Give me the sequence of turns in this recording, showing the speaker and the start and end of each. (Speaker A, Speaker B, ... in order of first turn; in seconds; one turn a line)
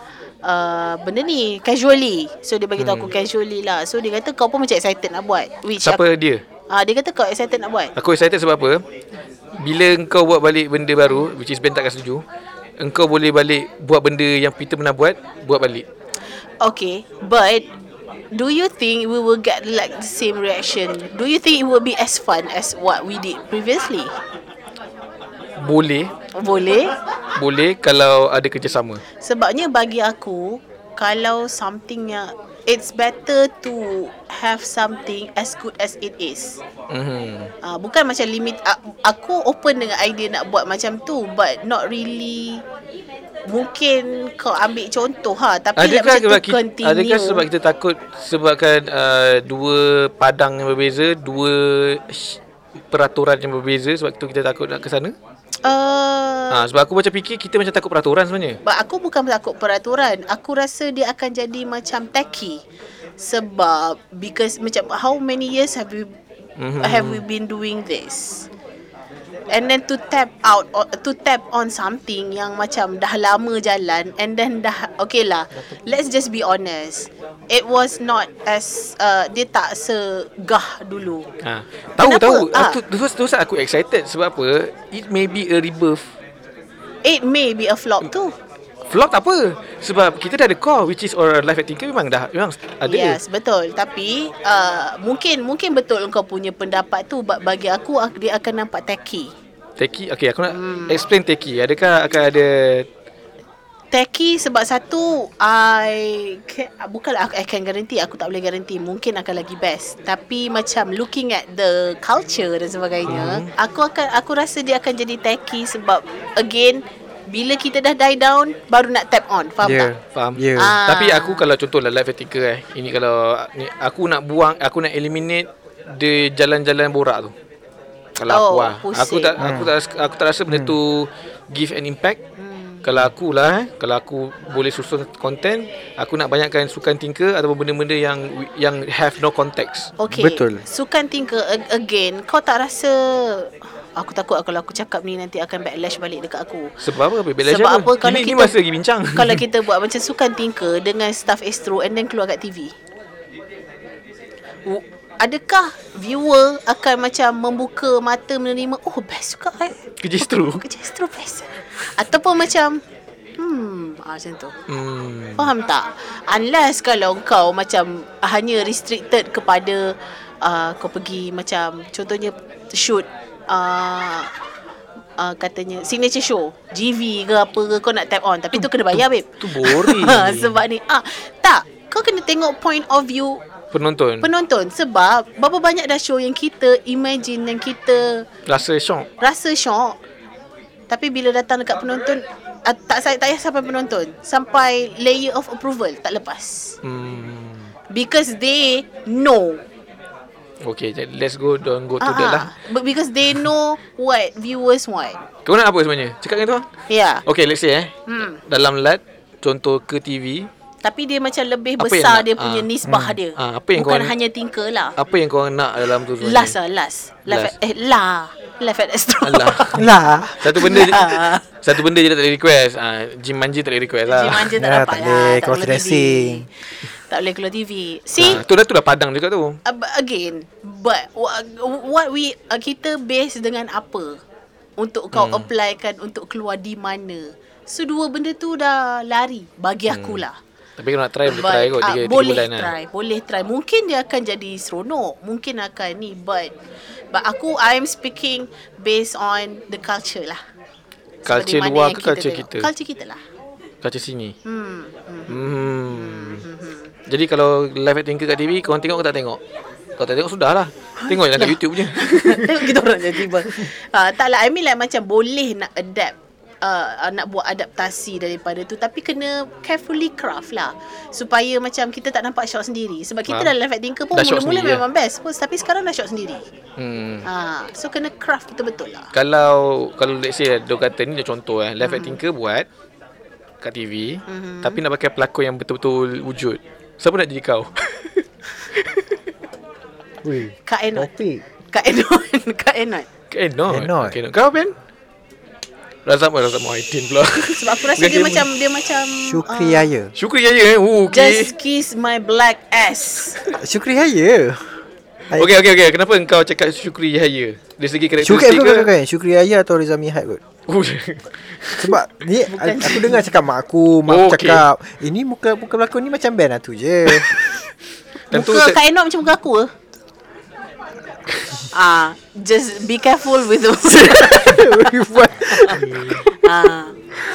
Speaker A: 0.4-6.0
Speaker B: 2.8-3.1
Speaker B: 5.8-6.4
Speaker A: 6.7-7.9
Speaker B: 8.0-8.8
Speaker B: 9.6-12.2
Speaker B: 12.8-15.8
Speaker A: 16.6-17.7
Speaker A: 18.3-24.1
Speaker B: 25.6-26.1
Speaker A: 26.4-26.9
Speaker B: 27.4-29.0
Speaker A: 29.2-36.6
Speaker B: 36.9-37.5
Speaker A: 37.6-42.6
Speaker A: 43.5-47.5
Speaker B: 45.8-52.4
Speaker B: 52.9-55.1
Speaker A: 55.6-56.6
Speaker B: 56.5-58.6
Speaker A: 58.6-62.6
Speaker A: 63.2-66.1
Speaker B: 66.6-67.2
Speaker A: 66.8-68.5
Speaker A: 69.5-81.3
Speaker B: 81.4-86.0
Speaker A: 82.0-82.8
Speaker A: 87.0-88.3
Speaker B: 88.9-93.2
Speaker A: 92.9-99.3
Speaker B: 99.8-102.9
Speaker A: 100.5-101.0
Speaker A: 103.9-119.9
Speaker B: 113.1-113.5
Speaker C: 119.6-120.8
Speaker B: 120.1-127.3
Speaker A: 120.6-121.5
Speaker B: 128.2-132.2
Speaker A: 128.3-129.4
Speaker C: 129.4-129.7
Speaker C: 130.5-130.8
Speaker A: 132.4-132.8
Speaker B: 132.8-139.9
Speaker A: 140.0-146.7
Speaker C: 140.1-140.6
Speaker B: 146.8-149.4
Speaker A: 147.4-148.6
Speaker A: 149.1-152.7
Speaker A: 154.7-162.8
Speaker B: 160.0-160.6
Speaker A: 163.4-164.5
Speaker B: 164.7-165.5
Speaker A: 165.4-174.3
Speaker A: 175.2-183.4
Speaker B: 178.6-180.6
Speaker B: 183.7-184.3
Speaker A: 184.2-188.3
Speaker B: 188.5-189.1
Speaker A: 189.2-190.0
Speaker A: 190.9-196.8
Speaker B: 196.8-197.7
Speaker A: 197.9-199.6
Speaker B: 200.6-202.5
Speaker A: 202.0-205.2
Speaker B: 205.4-206.7
Speaker A: 206.9-207.2
Speaker B: 207.3-210.5
Speaker A: 208.1-208.4
Speaker A: 210.8-214.9
Speaker B: 211.8-212.7
Speaker C: 212.8-213.2
Speaker B: 213.4-214.1
Speaker B: 215.0-216.6
Speaker A: 216.2-219.8
Speaker B: 219.2-219.8
Speaker C: 219.8-220.6
Speaker B: 220.4-224.5
Speaker A: 220.5-221.4
Speaker A: 224.1-228.4
Speaker C: 224.6-226.5
Speaker B: 228.2-229.6
Speaker A: 229.6-234.2
Speaker A: 234.8-240.4
Speaker B: 235.1-235.5
Speaker B: 239.9-240.2
Speaker B: 240.8-242.7
Speaker A: 241.3-246.5
Speaker A: 247.1-250.4
Speaker A: 251.3-253.2
Speaker B: 251.3-252.7
Speaker B: 253.8-254.3
Speaker A: 254.4-256.9
Speaker B: 255.3-256.4
Speaker B: 257.1-259.4
Speaker B: 260.0-263.6
Speaker A: 261.0-276.4
Speaker B: 273.3-273.5
Speaker B: 274.1-274.8
Speaker B: 276.8-277.3
Speaker A: 277.2-279.1
Speaker B: 279.1-282.7
Speaker A: 281.8-282.2
Speaker B: 283.6-288.2
Speaker A: 284.3-284.8
Speaker B: 288.7-289.1
Speaker C: 290.2-291.4
Speaker A: 290.7-291.1
Speaker A: 291.7-293.1
Speaker B: 293.3-294.7
Speaker C: 293.7-294.2
Speaker B: 296.1-298.5
Speaker A: 297.6-299.9
Speaker C: 299.2-300.1
Speaker B: 300.2-301.5
Speaker A: 301.1-303.4
Speaker C: 303.5-304.8
Speaker B: 305.3-308.9
Speaker C: 308.2-310.4
Speaker B: 310.7-312.0
Speaker C: 311.8-317.3
Speaker A: 312.4-313.3
Speaker B: 314.1-314.7
Speaker B: 318.3-318.8
Speaker A: 318.3-319.7
Speaker A: 321.7-324.7
Speaker C: 324.0-326.3
Speaker B: 325.7-326.2
Speaker A: 326.4-326.9